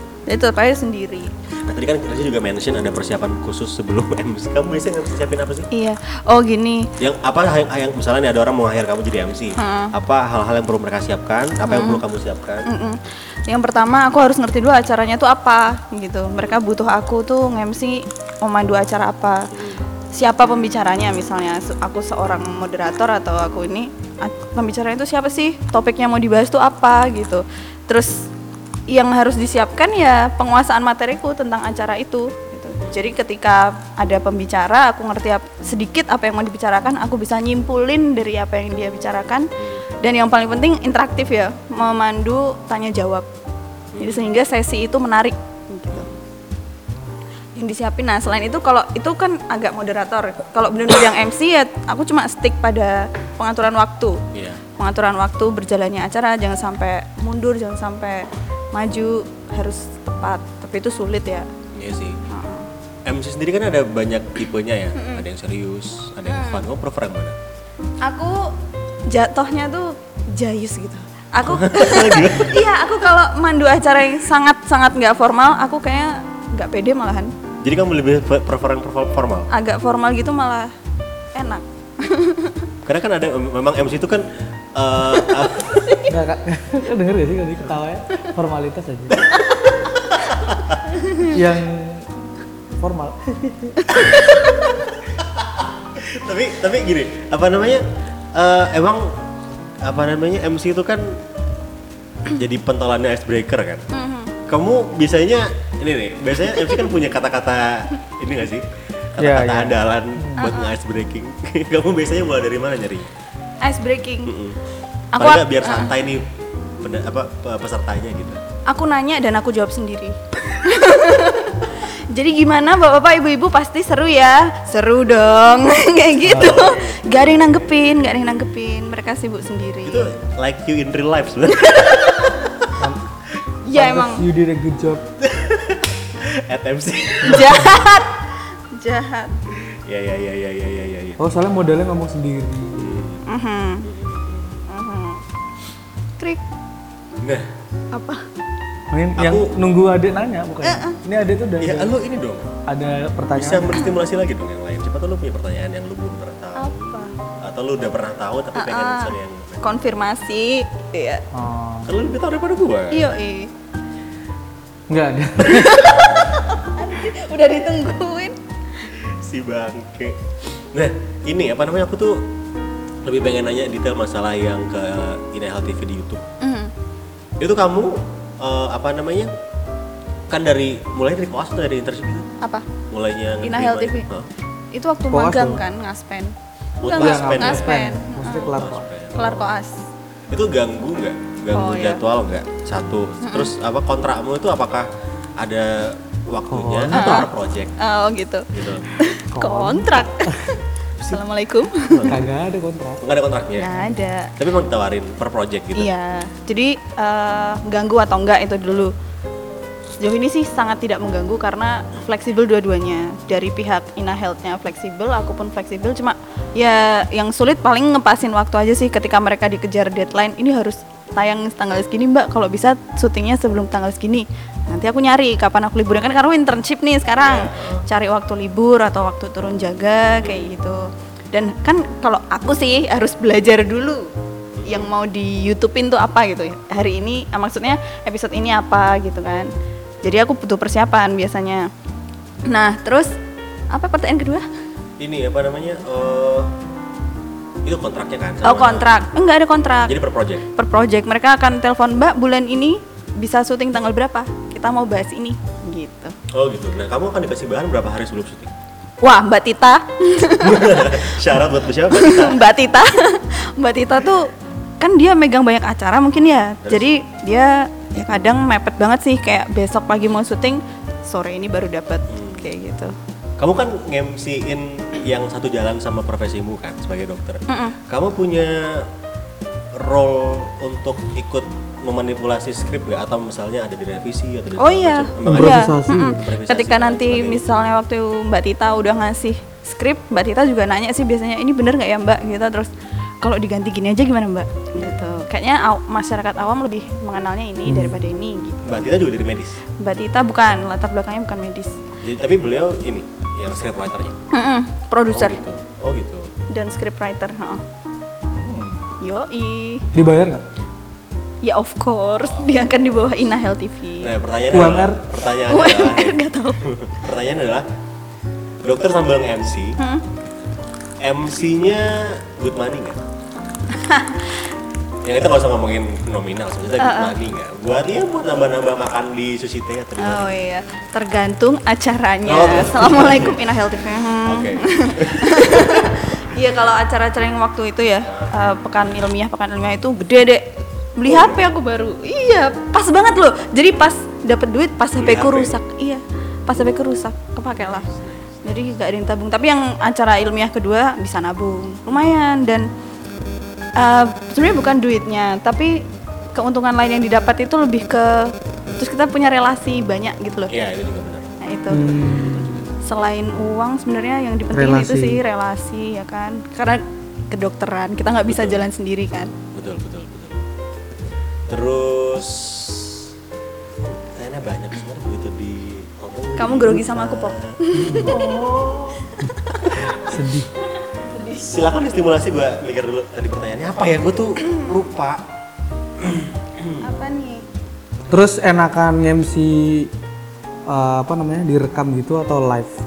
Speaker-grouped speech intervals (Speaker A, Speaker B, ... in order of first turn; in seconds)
Speaker A: 0.3-1.3, 5.7-6.9, 9.6-9.9, 11.6-12.0, 12.7-19.5, 20.1-28.3, 28.9-39.5, 40.0-43.3, 44.0-46.1, 47.6-54.2, 54.8-61.5, 62.3-62.7, 65.0-65.2, 66.3-66.7, 68.0-68.5, 69.1-77.3, 79.5-80.7, 81.3-82.7, 91.0-91.3, 93.9-94.5, 103.9-104.3, 110.4-110.7, 113.6-114.3, 115.1-115.9, 118.7-130.1, 131.6-132.3, 133.7-134.2, 137.2-139.4, 143.2-143.9, 144.7-145.2, 147.9-148.2, 150.6-151.0, 156.6-157.2, 158.6-161.2, 162.9-163.5, 165.4-168.4, 176.4-176.7, 182.4-182.7, 183.4-184.1, 184.7-186.3, 186.8-188.6, 189.2-189.8, 191.5-192.0, 193.2-193.5, 196.9-202.1, 203.6-204.3, 205.8-208.9, 210.0-234.1, 234.7-239.5, 240.0-241.7, 242.5-243.1, 243.7-244.5, 248.4-249.9, 250.5-256.1, 259.0-272.9, 277.5-277.8, 284.6-292.7, 293.2-298.7, 299.8-301.8, 304.3-305.4, 306.5-307.6, 309.0-309.9, 311.4-314.1, 315.5-316.6, 319.8-320.0, 323.7-324.3, 326.8-327.2, 330.0-347.9, 348.4-352.7, 353.8-360.5, 361.4-362.2, 362.8-369.3, 376.4-378.3, 380.8-381.5, 386.8-387.5
Speaker B: 1.6-5.7, 7.0-12.7, 19.5-19.8, 43.9-44.3, 54.3-54.6, 61.8-62.2, 63.1-67.4, 71.5-72.6, 77.6-79.5, 82.8-85.9, 89.1-90.8, 93.9-99.2, 99.8-101.2, 102.3-103.8, 104.5-113.1, 114.3-114.6, 115.2-116.3, 116.8-118.4, 126.3-128.3, 129.8-132.7, 135.2-137.8, 139.9-141.2, 142.8-143.2, 143.8-144.6, 147.2-147.5, 149.2-149.5, 151.6-152.5, 153.4-159.7, 161.9-163.1, 168.9-170.2, 170.7-172.3, 173.0-176.2, 177.4-179.3, 180.3-182.3, 182.9-184.3, 186.8-189.5, 190.3-194.9, 195.4-197.8, 198.5-198.9, 201.9-202.2, 203.0-203.7, 204.4-205.9, 227.2-227.8, 230.2-230.5, 234.6-234.9, 245.0-246.5, 247.6-248.9, 249.9-250.4, 256.3-258.5, 260.4-262.4, 272.1-272.5, 273.4-278.9, 279.8-287.5, 294.8-295.0, 298.6-299.6, 302.0-304.2, 305.1-306.3, 308.5-308.8, 314.0-317.7, 318.6-319.8, 321.0-323.0, 325.0-330.4, 332.3-333.4, 334.3-336.0, 341.1-341.4, 345.0-345.5, 347.6-348.4, 360.5-361.3, 362.2-362.6, 368.3-368.6, 369.5-370.4, 371.5-373.1, 373.9-379.0, 379.6-380.1, 381.3-385.2, 386.0-386.8
Speaker C: 86.1-89.2, 91.3-92.1, 92.8-93.8, 109.2-110.4, 126.3-126.6, 133.7-135.1, 141.2-142.9, 148.9-151.9, 152.7-153.9, 161.3-161.9, 164.9-166.0, 185.1-185.6, 187.0-188.9, 196.5-197.2, 199.3-200.5, 202.1-203.0, 285.2-286.2, 297.7-298.0, 309.9-310.4, 314.5-315.0, 361.7-362.6, 364.5-365.2, 377.8-379.3, 380.0-380.5, 388.1-389.9, 390.7-392.8